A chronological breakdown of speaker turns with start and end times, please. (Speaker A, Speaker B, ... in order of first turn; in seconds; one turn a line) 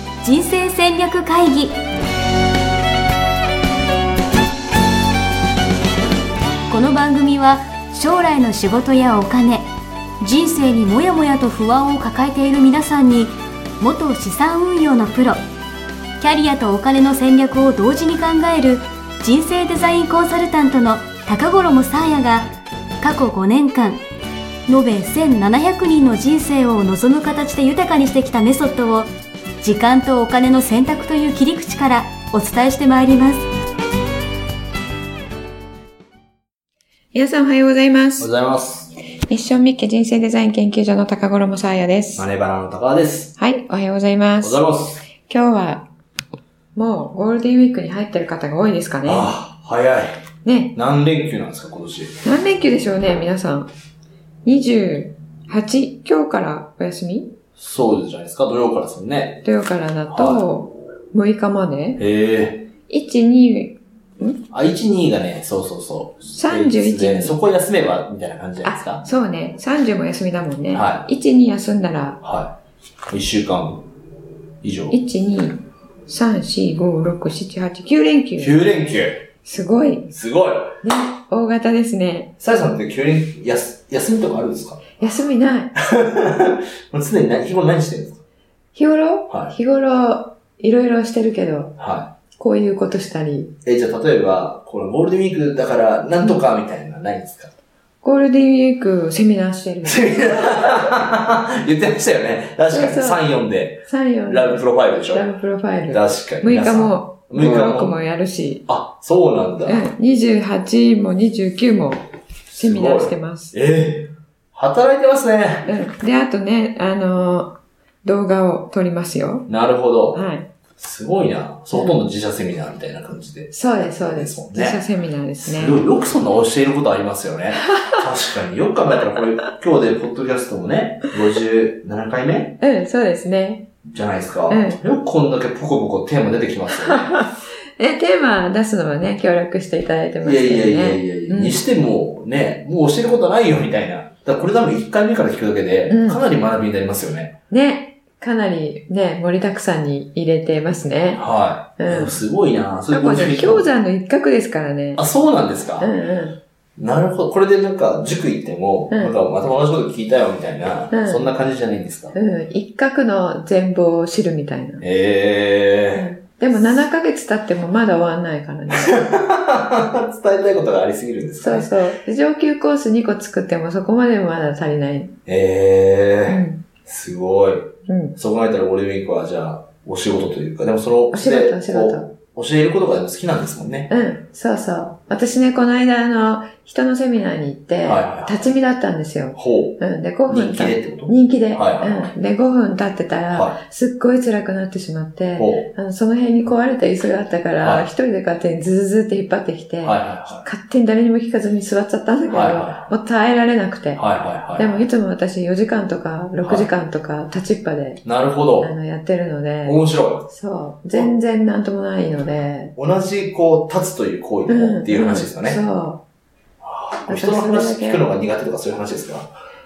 Speaker A: 0.2-1.8
Speaker A: 6.7-9.7
Speaker A: 10.2-15.4
Speaker A: 16.2-22.5
Speaker A: 23.0-24.0
Speaker A: 24.7-33.4
Speaker B: 37.1-38.3
Speaker C: 38.2-38.9
Speaker B: 39.2-42.3
Speaker C: 42.2-43.3
Speaker B: 43.4-45.9
Speaker C: 44.4-45.0
Speaker B: 46.7-49.3
Speaker C: 49.0-50.2
Speaker B: 50.4-50.7
Speaker C: 50.7-52.2
Speaker B: 52.2-53.7
Speaker B: 54.5-57.3
Speaker C: 57.6-59.4
Speaker B: 59.5-62.0
Speaker C: 60.1-60.5
Speaker C: 62.0-62.7
Speaker B: 62.9-64.4
Speaker C: 64.5-69.1
Speaker B: 66.3-67.4
Speaker B: 68.6-72.2
Speaker C: 70.7-71.0
Speaker C: 72.2-72.5
Speaker C: 73.1-73.8
Speaker C: 74.6-75.0
Speaker B: 74.9-78.6
Speaker C: 78.4-79.2
Speaker B: 79.4-80.1
Speaker C: 80.1-80.8
Speaker B: 80.8-82.3
Speaker C: 82.4-85.0
Speaker B: 85.0-85.7
Speaker C: 85.8-88.2
Speaker B: 88.8-91.8
Speaker C: 89.3-89.5
Speaker C: 91.8-92.1
Speaker B: 92.4-93.5
Speaker C: 93.6-97.5
Speaker B: 98.0-100.9
Speaker C: 99.8-105.2
Speaker B: 102.7-103.2
Speaker B: 103.9-108.7
Speaker C: 105.9-108.0
Speaker C: 108.7-109.9
Speaker B: 109.7-112.0
Speaker C: 112.5-115.7
Speaker B: 112.5-113.5
Speaker B: 115.7-119.5
Speaker C: 119.5-120.2
Speaker B: 120.1-120.5
Speaker C: 120.8-124.8
Speaker B: 123.5-125.8
Speaker C: 125.4-132.6
Speaker B: 127.7-128.0
Speaker B: 132.6-133.7
Speaker C: 133.8-137.2
Speaker B: 134.5-134.8
Speaker B: 136.7-141.6
Speaker C: 140.2-147.4
Speaker B: 145.9-146.2
Speaker B: 147.5-151.2
Speaker C: 151.1-153.7
Speaker B: 151.8-152.2
Speaker B: 152.9-155.0
Speaker C: 154.9-155.9
Speaker B: 155.8-156.4
Speaker C: 156.8-162.1
Speaker B: 160.9-161.3
Speaker B: 162.1-164.8
Speaker C: 164.8-166.8
Speaker B: 165.9-169.1
Speaker C: 168.7-171.7
Speaker B: 171.4-175.1
Speaker C: 175.2-183.9
Speaker B: 176.3-176.6
Speaker B: 177.9-178.2
Speaker B: 181.1-182.1
Speaker B: 183.9-204.0
Speaker C: 187.8-188.5
Speaker C: 189.4-192.1
Speaker C: 193.3-193.6
Speaker C: 195.4-195.7
Speaker C: 199.8-200.4
Speaker C: 202.3-202.9
Speaker C: 203.9-204.8
Speaker B: 204.6-208.0
Speaker C: 208.1-208.7
Speaker B: 208.6-212.7
Speaker C: 209.6-210.3
Speaker C: 212.8-215.6
Speaker B: 214.5-216.0
Speaker C: 216.6-219.3
Speaker B: 217.1-218.0